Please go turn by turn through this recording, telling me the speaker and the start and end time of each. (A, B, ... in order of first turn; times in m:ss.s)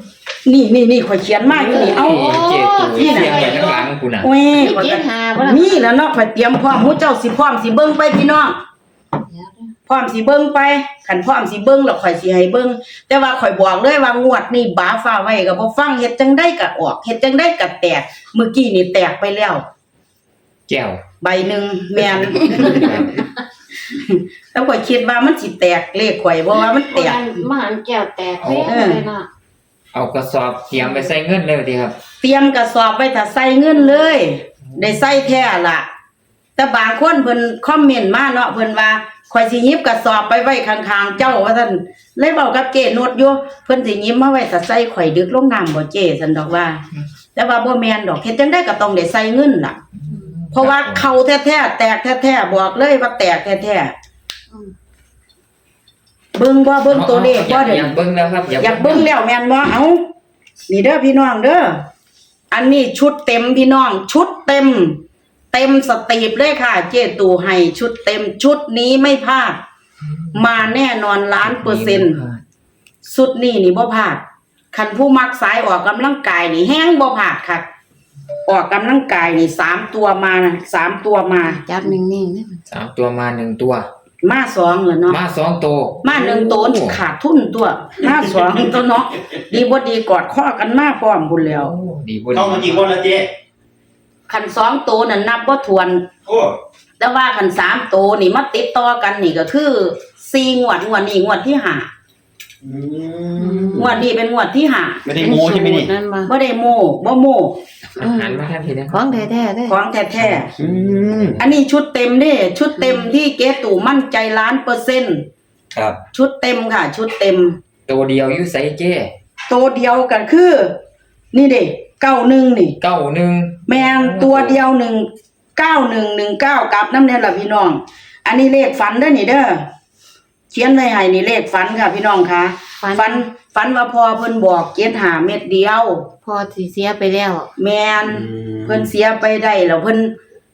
0:00.4-0:02.4 A
0:01.5-0:04.3 B
0:01.7-0:03.9 C
0:02.9-0:08.6 A
0:04.5-0:05.9 C
0:09.3-0:09.7 C
0:09.9-0:19.6 A
0:20.7-0:21.0 B
0:21.2-0:23.1 A
0:22.1-0:23.2 B
0:22.6-0:22.9 C
0:23.9-0:27.4 A
0:26.8-0:29.3 C
0:28.4-0:28.8 B
0:28.6-0:29.0 A
0:29.9-0:32.0 B
0:32.2-0:35.9 A
0:34.7-0:35.0 B
0:36.6-0:46.8 A
0:47.4-0:49.8 A
0:50.0-0:51.1 B
0:50.5-0:53.9 A
0:56.4-0:58.0 A
0:56.9-0:59.1 B
0:58.6-1:00.0 A
1:00.7-1:01.8 A
1:02.5-1:05.0 A
1:05.5-1:09.6 A
1:10.0-1:10.7 B
1:10.3-1:12.2 A
1:11.4-1:12.4 B
1:13.0-1:17.7 A
1:18.5-1:22.0 A
1:21.4-1:22.6 C
1:22.7-1:23.9 B
1:24.2-1:25.2 A
1:25.1-1:27.0 B
1:26.0-1:31.7 A
1:31.5-1:32.9 B
1:32.3-1:33.3 D
1:34.3-1:36.1 A
1:36.3-1:36.6 D
1:37.0-1:41.9 A
1:42.6-1:44.0 D
1:43.4-1:44.0 C
1:43.7-1:45.0 A
1:45.0-1:45.9 D
1:45.2-1:46.3 C
1:46.3-1:47.6 A
1:48.0-1:49.3 B
1:48.0-1:49.8 C
1:49.7-1:50.5 A
1:50.5-1:51.5 D
1:51.4-1:55.3 A
1:52.8-1:53.1 C
1:55.7-1:56.0 D
1:56.1-1:57.6 A
1:57.9-1:59.1 B
1:59.5-2:00.8 A
2:01.3-2:02.8 A
2:02.8-2:04.6 B
2:03.7-2:09.6 A
2:10.5-2:16.0 A
2:12.8-2:13.2 C
2:16.2-2:17.5 C
2:17.6-2:20.1 A
2:18.1-2:18.9 D